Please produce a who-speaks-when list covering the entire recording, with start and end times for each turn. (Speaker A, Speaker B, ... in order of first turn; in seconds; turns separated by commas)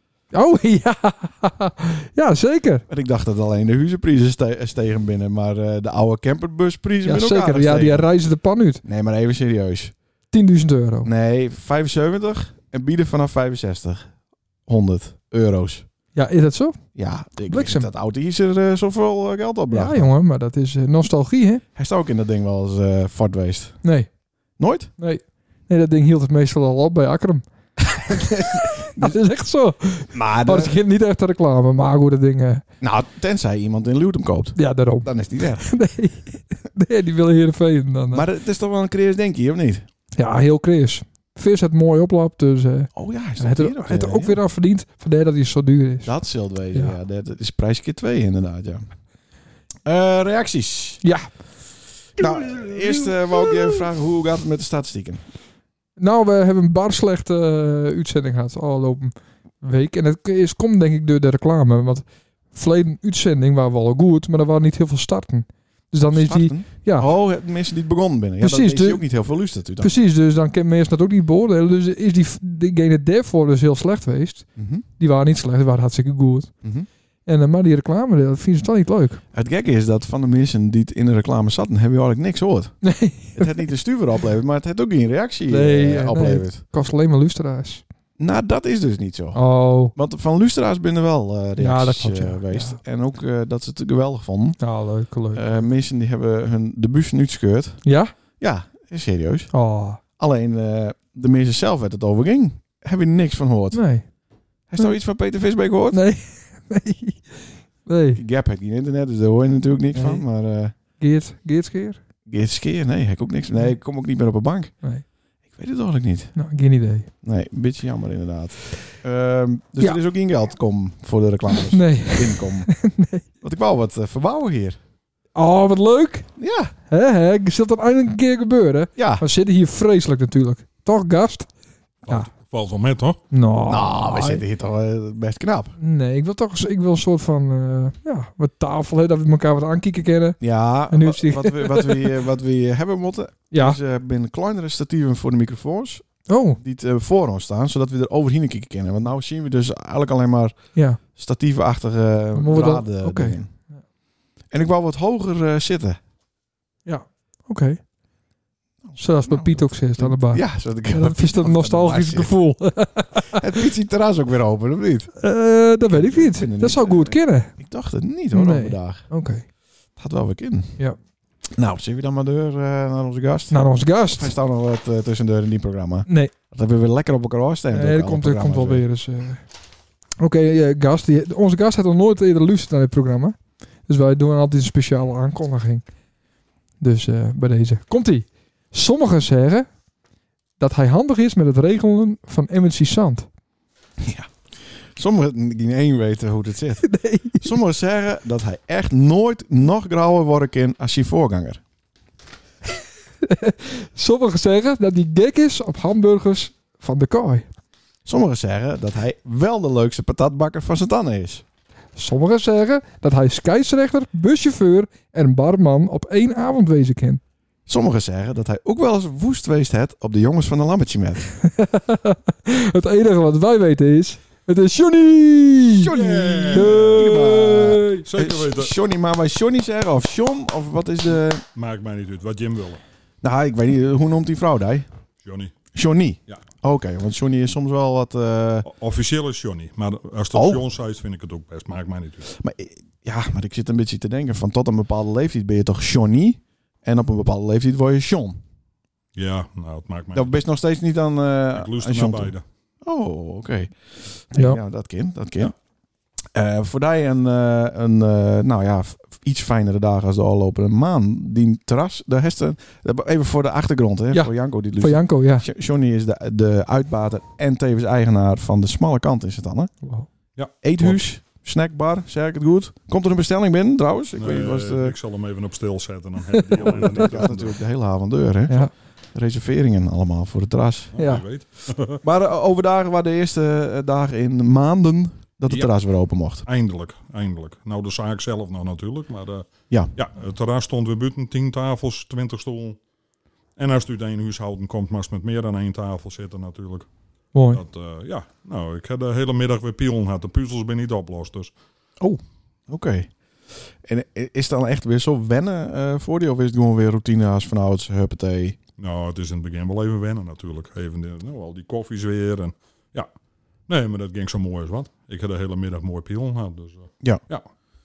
Speaker A: 0.3-2.8, Speaker B: 2.9-8.1, Speaker A: 7.0-8.8, Speaker B: 8.8-9.9, Speaker A: 10.3-11.1, Speaker B: 11.1-14.1, Speaker B: 14.7-15.8, Speaker A: 16.1-16.8, Speaker B: 17.0-20.1, Speaker A: 17.5-17.9, Speaker A: 19.7-21.6, Speaker B: 21.8-23.8, Speaker A: 23.8-24.1, Speaker B: 24.6-24.9, Speaker A: 25.0-27.4, Speaker B: 27.9-29.1, Speaker A: 28.1-32.6, Speaker B: 30.1-30.8, Speaker B: 32.8-35.8, Speaker A: 34.6-38.3, Speaker B: 38.1-39.9, Speaker A: 40.2-46.1, Speaker B: 43.0-44.4, Speaker B: 46.0-48.8, Speaker B: 49.9-51.0, Speaker A: 51.0-51.3, Speaker B: 52.2-55.2, Speaker A: 52.2-53.8, Speaker A: 56.0-67.1, Speaker B: 66.1-69.9, Speaker A: 68.4-69.0, Speaker A: 69.8-76.5, Speaker B: 74.6-74.9, Speaker B: 76.6-76.9, Speaker A: 77.3-79.2, Speaker B: 79.3-82.7, Speaker A: 82.8-83.6, Speaker B: 83.4-86.6, Speaker A: 85.5-87.8, Speaker B: 88.2-94.6, Speaker A: 89.3-89.9, Speaker A: 91.6-92.8, Speaker A: 94.6-95.6, Speaker B: 95.3-97.8, Speaker A: 97.8-98.1, Speaker B: 98.4-99.5, Speaker A: 99.5-100.0, Speaker B: 100.2-103.8, Speaker A: 103.7-104.0, Speaker B: 104.7-106.0, Speaker A: 105.9-108.2, Speaker B: 108.2-110.7, Speaker A: 110.0-110.2, Speaker A: 111.0-112.0, Speaker B: 112.3-114.7, Speaker B: 115.5-116.3, Speaker A: 116.3-117.1, Speaker B: 117.2-122.7, Speaker A: 121.5-123.2, Speaker B: 123.4-124.8, Speaker A: 125.3-126.3, Speaker B: 126.4-126.7, Speaker A: 126.9-131.5, Speaker B: 129.0-129.2, Speaker C: 132.1-133.2, Speaker A: 133.3-134.4, Speaker B: 133.7-135.8, Speaker A: 135.8-140.4, Speaker B: 140.4-146.1, Speaker A: 140.9-142.2, Speaker A: 143.5-143.8, Speaker A: 146.3-146.6, Speaker B: 146.6-150.6, Speaker A: 150.8-151.0, Speaker B: 151.1-153.5, Speaker A: 152.3-153.4, Speaker B: 154.5-156.0, Speaker A: 156.9-157.8, Speaker B: 158.8-162.3, Speaker A: 159.0-163.5, Speaker B: 163.3-165.1, Speaker A: 165.2-167.5, Speaker B: 165.9-169.1, Speaker A: 168.3-169.4, Speaker B: 170.0-170.7, Speaker B: 171.5-178.8, Speaker A: 173.5-174.3, Speaker A: 176.1-176.3, Speaker A: 177.7-179.4, Speaker A: 180.2-185.8, Speaker A: 186.8-189.7, Speaker A: 190.6-193.3, Speaker B: 194.0-194.3, Speaker B: 194.9-196.8, Speaker A: 196.8-197.5, Speaker B: 197.4-201.6, Speaker A: 203.2-207.5, Speaker B: 208.1-211.4, Speaker A: 212.0-217.2, Speaker B: 217.7-221.3, Speaker A: 221.4-225.9, Speaker B: 225.7-231.4, Speaker C: 225.9-228.7, Speaker A: 226.5-228.1, Speaker C: 231.6-232.8, Speaker B: 233.2-234.9, Speaker C: 235.2-235.5, Speaker B: 235.7-238.7, Speaker C: 238.7-242.3, Speaker B: 240.3-240.6, Speaker B: 242.3-248.4, Speaker C: 249.2-250.3, Speaker B: 250.1-253.7, Speaker C: 251.6-252.4, Speaker B: 254.3-255.5, Speaker B: 256.3-269.7, Speaker A: 264.1-265.5, Speaker A: 269.8-270.1, Speaker C: 270.4-271.0, Speaker B: 270.6-274.9, Speaker C: 274.2-277.6, Speaker A: 276.3-277.0, Speaker B: 276.6-280.9, Speaker C: 280.9-282.0, Speaker A: 281.0-281.2, Speaker B: 282.0-286.4, Speaker C: 285.5-285.7, Speaker C: 286.4-292.8, Speaker C: 293.6-296.9, Speaker A: 297.3-297.6, Speaker C: 297.5-301.5, Speaker B: 302.0-303.1, Speaker B: 303.8-308.6, Speaker C: 308.8-313.1, Speaker C: 313.7-317.5